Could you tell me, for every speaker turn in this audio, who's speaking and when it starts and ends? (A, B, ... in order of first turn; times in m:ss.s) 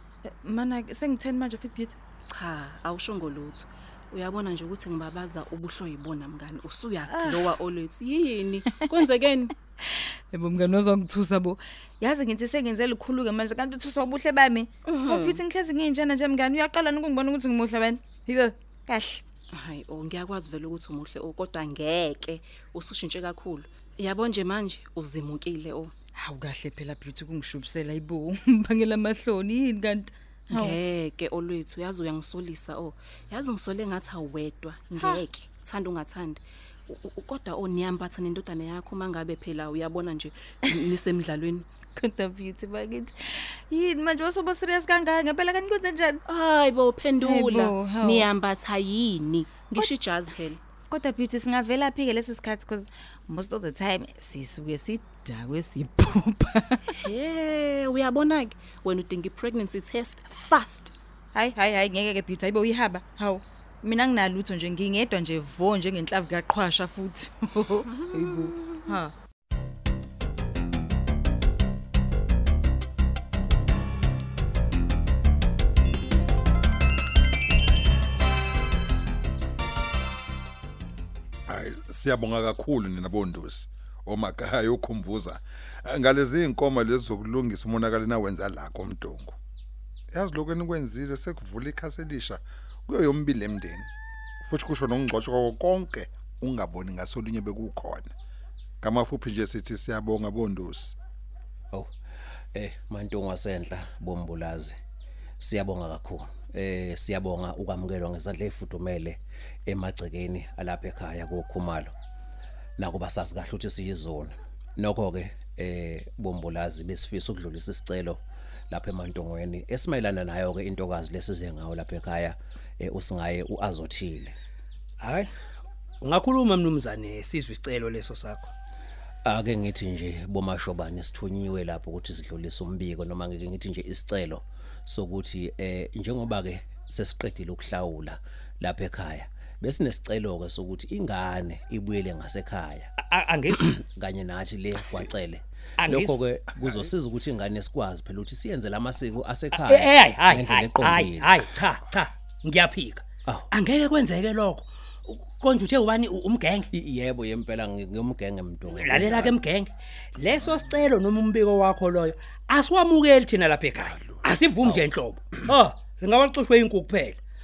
0:00.2-0:02.0 A
0:02.3-0:09.5 B
0:07.1-0:07.5 A
0:09.8-0:19.2 A
0:14.8-0:15.4 B
0:19.5-0:25.9 B
0:26.2-0:30.8 A
0:30.5-0:41.6 B
0:41.9-0:46.2 A
0:46.3-0:50.6 B
0:47.2-0:48.3 A
0:50.9-0:56.9 A
0:57.0-1:00.9 B
1:01.3-1:09.1 A
1:08.0-1:08.7 B
1:21.5-1:29.4 C
1:30.1-1:33.9 C
1:34.4-1:38.1 C
1:38.8-1:41.0 C
1:42.5-1:44.8 D
1:45.4-1:51.9 D
1:52.8-2:04.4 D
2:05.0-2:05.3 E
2:06.0-2:08.5 E
2:09.2-2:22.9 D
2:23.0-2:23.8 E
2:23.6-2:31.4 D
2:25.8-2:26.2 E
2:29.5-2:36.7 E
2:36.7-2:39.4 D
2:38.7-2:47.2 E
2:43.8-2:44.2 C